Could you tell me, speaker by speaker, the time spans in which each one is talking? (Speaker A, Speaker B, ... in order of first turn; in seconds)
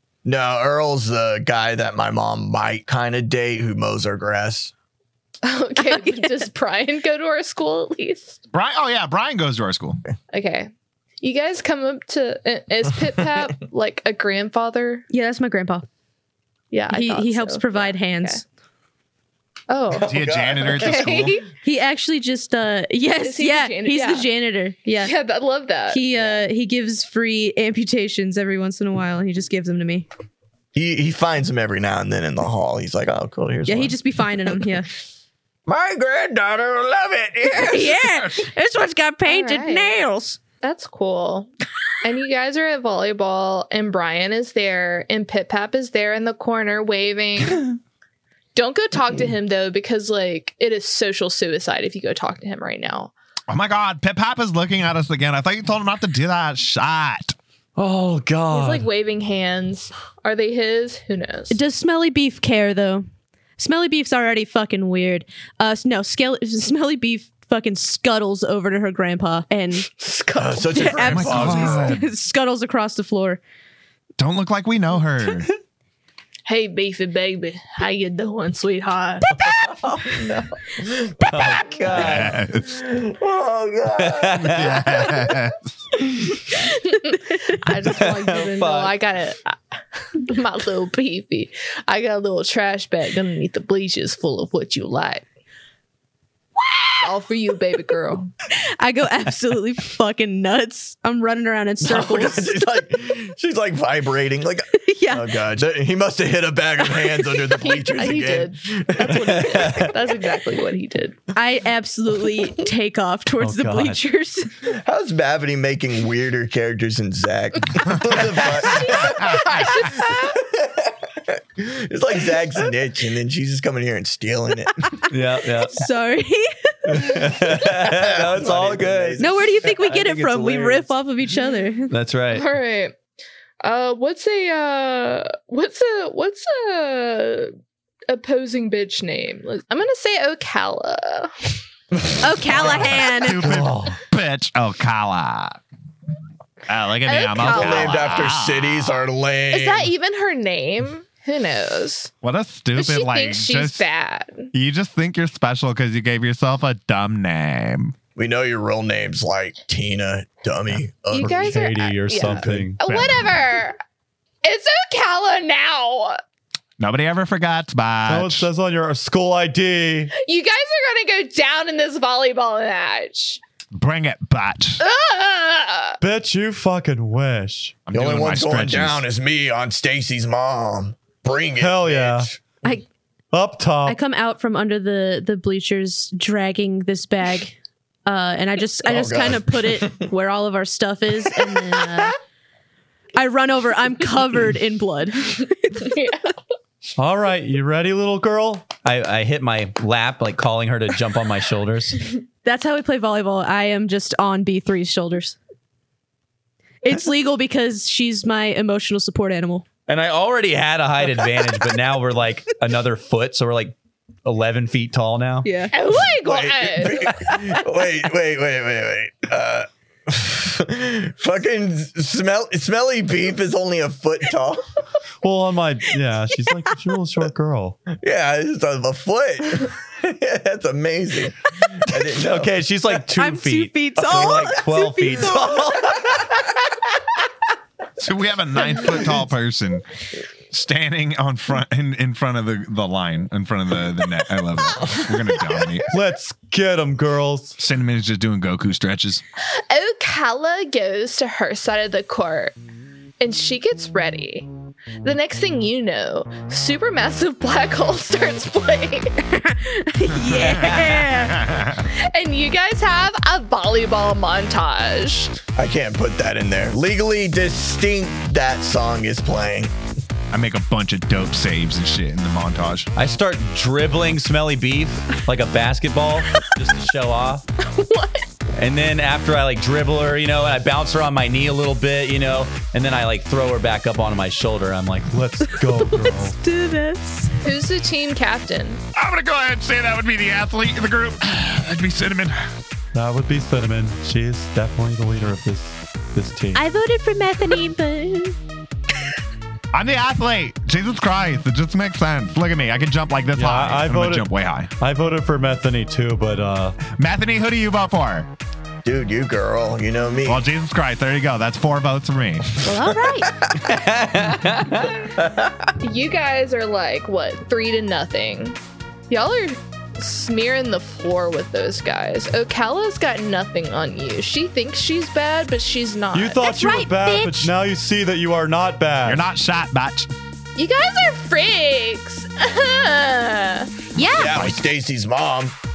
Speaker A: 0.2-4.7, 19.9-21.3, 30.7-34.0, 35.7-38.0, 70.3-72.0, 79.4-84.7, 101.8-109.7, 114.7-124.9, 127.1-129.7, 147.4-149.9, 158.2-163.0, 177.9-182.4, 188.8-190.1, 216.1-224.6, 227.9-232.9, 265.6-269.7, 308.8-310.4, 334.1-335.6
Speaker B: 5.4-8.4, 10.3-10.7, 11.2-15.0, 16.7-18.4, 19.7-20.1, 20.8-21.5, 23.1-24.3, 25.0-26.2, 39.3-40.0, 40.6-41.5, 42.0-47.7, 48.5-53.1, 58.5-61.6, 69.9-70.6, 76.5-79.2, 81.5-81.9, 87.0-95.2, 97.0-98.3, 107.5-111.2, 118.6-120.3, 132.3-132.9, 133.6-137.5, 138.1-141.6, 147.1-148.3, 149.5-152.1, 152.8-154.5, 161.1-163.8, 164.4-166.2, 170.2-173.4, 174.8-176.0, 195.8-196.2, 215.7-217.4, 249.7-252.6, 253.2-254.5, 255.0-259.3, 261.9-265.3, 277.6-278.3, 287.4-288.8, 315.8-318.6, 319.1-326.5, 330.6-333.8
Speaker C: 5.8-6.5, 15.1-15.9, 16.9-18.4, 21.6-25.1, 25.9-30.1, 33.7-34.9, 37.5-40.4, 61.5-63.0, 63.6-69.9, 70.7-73.4, 98.8-102.6, 104.8-105.3, 111.3-114.5, 125.7-127.0, 129.2-131.9, 142.2-143.5, 183.8-192.2, 193.2-196.0, 202.4-205.4, 206.8-209.7, 215.4-215.7, 233.1-235.8, 259.4-261.4, 285.6-287.4
Speaker D: 8.5-10.0, 20.0-21.4, 53.5-57.4, 71.0-72.0, 74.2-75.5, 81.9-82.8, 84.5-85.6, 119.0-119.7, 142.6-145.6, 146.7-149.0, 152.2-153.9, 154.5-157.9, 162.9-163.1, 166.8-168.5, 173.7-174.8, 177.9-179.1, 238.0-239.8, 240.5-245.9, 247.6-249.2, 260.4-261.9, 270.3-272.9, 288.9-292.4, 299.7-304.7, 306.9-308.3, 310.3-312.7, 329.1-330.1
Speaker E: 57.8-58.9, 113.4-114.0, 143.4-144.0, 161.2-162.8, 168.1-170.1, 176.0-177.8, 181.6-182.3, 183.3-184.0, 197.0-198.7, 225.2-227.8, 245.9-247.6, 285.1-286.4, 292.9-296.6, 303.4-306.8, 326.1-329.2
Speaker F: 81.2-82.4, 84.0-85.1, 87.8-88.9, 109.4-109.9, 125.1-125.8, 126.9-130.9, 131.9-132.5, 198.8-202.0, 209.9-215.5, 232.1-236.3, 260.6-261.0, 273.0-277.5, 278.6-285.1, 313.5-315.0
Speaker G: 296.6-298.4, 312.6-313.3, 326.4-327.5, 334.0-334.4